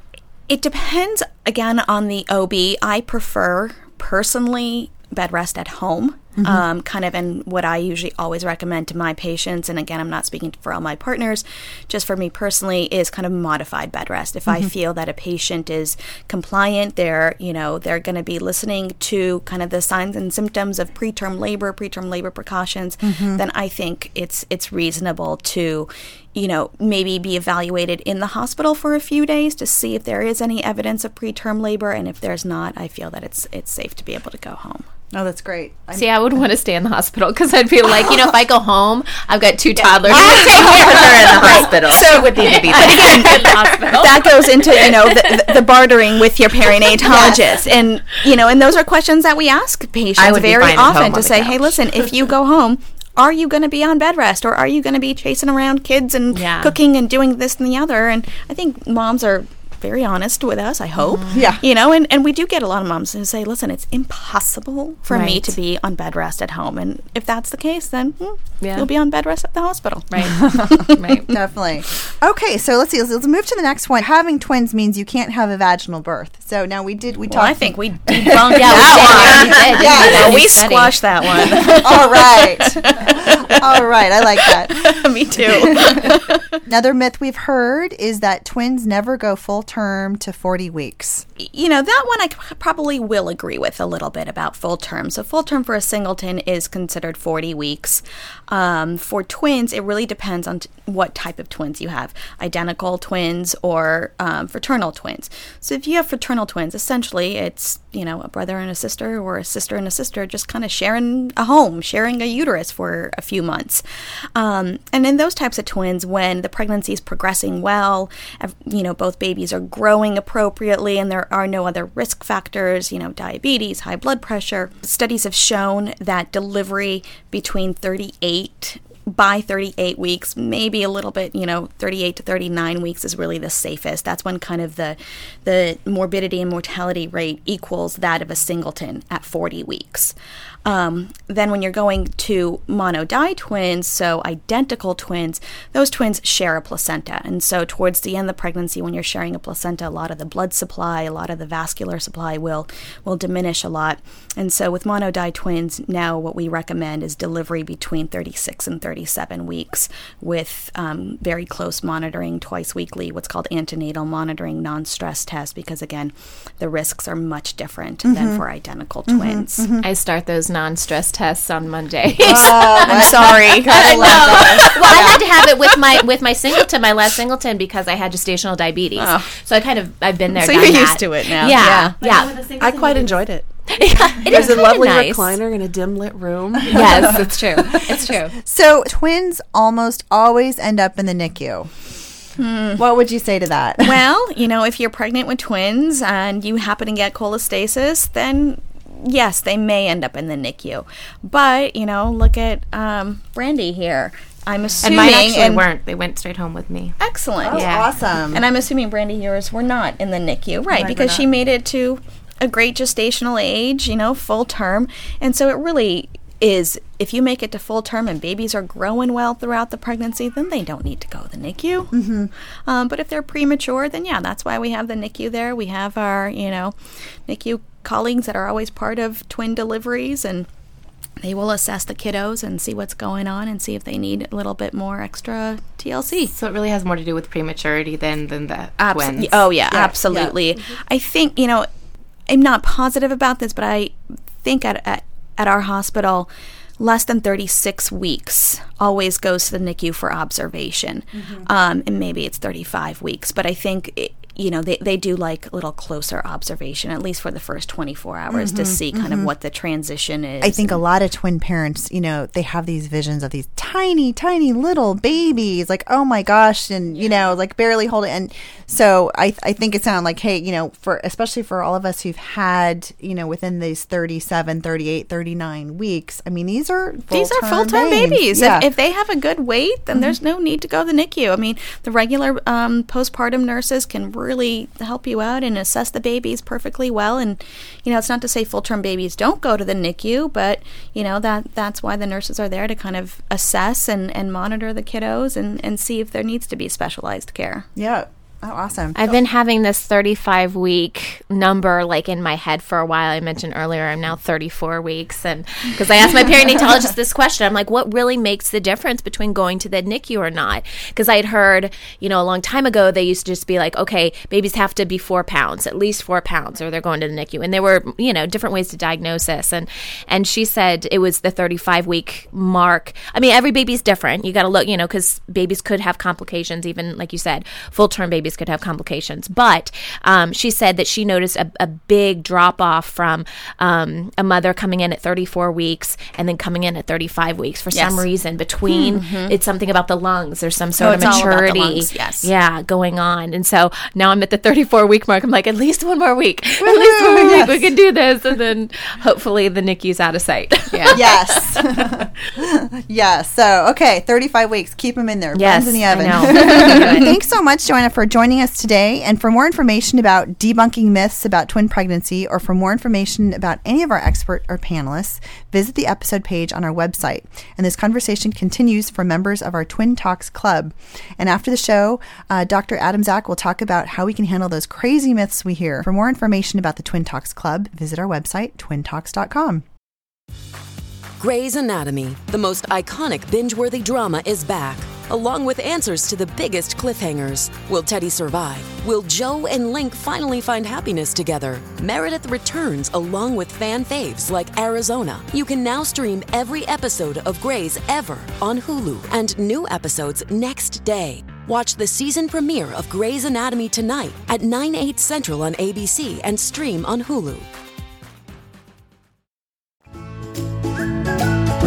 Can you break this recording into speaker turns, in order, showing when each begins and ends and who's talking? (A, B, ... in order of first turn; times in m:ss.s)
0:00.5-0:34.8 A
0:06.4-0:06.6 B
0:23.0-0:23.4 B
0:35.1-0:36.1 B
0:35.9-0:45.6 C
0:40.0-1:10.8 A
0:40.1-0:43.3 D
0:47.0-0:47.4 C
0:50.2-0:51.8 D
0:56.3-0:56.7 C
1:01.0-1:01.5 C
1:01.3-1:01.6 B
1:05.1-1:05.5 C
1:08.6-1:08.9 C
1:10.1-1:11.3 C
1:10.4-1:20.4 B
1:17.3-1:23.8 A
1:18.5-1:21.0 C
1:21.6-1:31.2 B
1:24.3-1:26.6 A
1:31.4-1:53.8 A
1:54.3-2:20.1 A
2:20.6-2:49.7 A
2:48.0-2:48.4 B
2:49.1-2:49.8 B
2:49.8-3:02.3 C
2:52.2-2:55.2 B
2:52.3-2:55.8 A
2:59.0-2:59.3 A
3:00.3-3:02.0 A
3:02.0-3:03.2 D
3:02.6-3:03.5 E
3:03.7-3:05.4 C
3:04.2-3:07.2 E
3:06.7-3:08.3 C
3:06.7-3:07.3 B
3:07.9-3:11.7 B
3:12.4-3:12.8 A
3:12.8-3:14.0 B
3:13.8-3:25.6 A
3:24.8-3:27.0 D
3:27.0-3:41.9 A
3:27.4-3:28.4 B
3:27.5-3:27.9 D
3:30.7-3:31.3 B
3:41.9-3:42.3 B
3:42.6-3:50.5 A
3:51.2-3:56.3 A
3:56.3-3:59.5 D
3:58.8-4:01.7 A
3:59.7-4:00.4 B
4:02.3-4:20.8 A
4:11.1-4:11.5 B
4:18.3-4:19.3 B
4:20.4-4:38.7 B
4:37.1-4:57.7 A
4:57.8-4:59.2 B
4:58.9-5:51.6 C
5:37.7-5:38.0 A
5:38.7-5:39.4 A
5:40.8-5:42.3 A
5:41.0-5:41.2 B
5:46.6-5:47.6 B
5:50.9-6:19.6 B
5:55.3-5:57.1 C
5:56.2-5:57.0 A
6:21.2-6:47.5 F